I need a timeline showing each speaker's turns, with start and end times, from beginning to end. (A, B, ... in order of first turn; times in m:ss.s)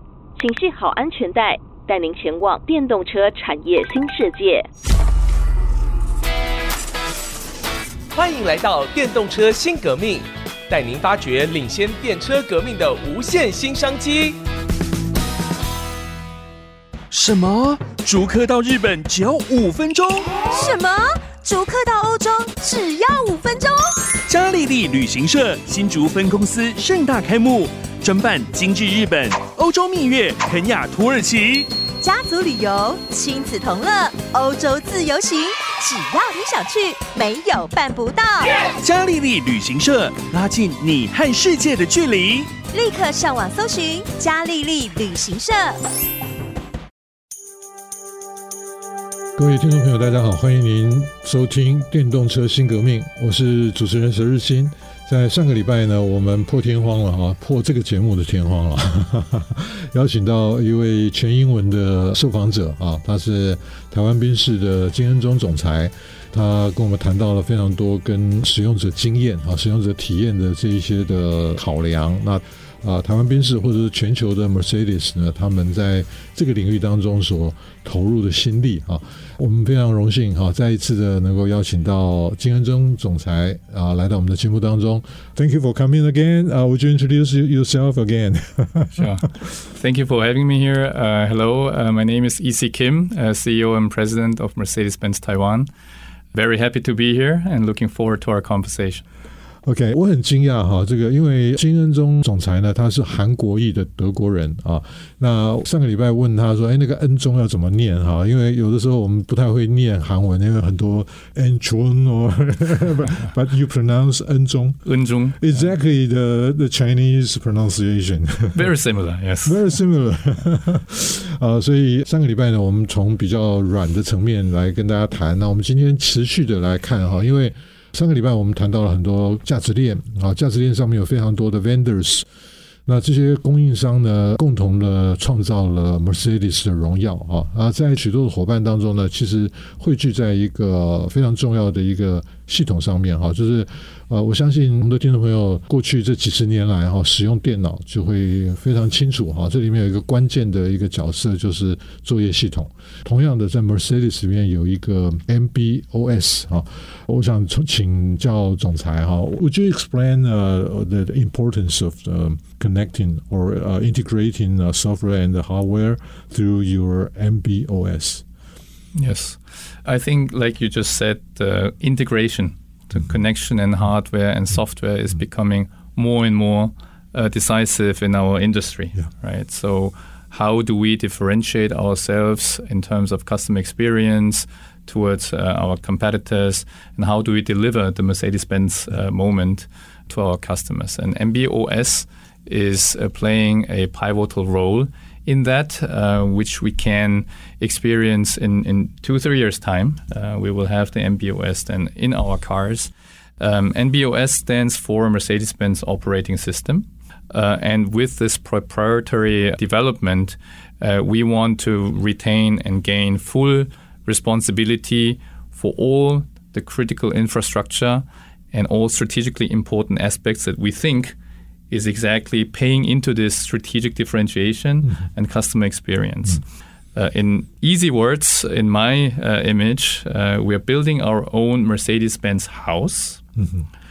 0:00.4-0:04.7 A
0:08.2-0:14.4 B
0:17.1-0:20.3 C
0:20.5-0:23.7 D
0:24.3-0:31.7 C
0:32.0-0:38.5 D
0:38.8-0:42.5 C
0:42.6-0:45.8 D
0:49.4-1:29.3 E
1:28.9-1:35.7 F
1:36.3-1:39.0 F
1:39.6-1:58.7 E
1:54.8-1:55.7 F
1:58.5-1:59.6 F
1:59.4-2:12.2 E
2:12.8-2:48.2 E
2:48.9-3:41.2 F
3:41.7-3:46.4 F
3:46.9-3:53.2 F
3:53.4-3:53.6 E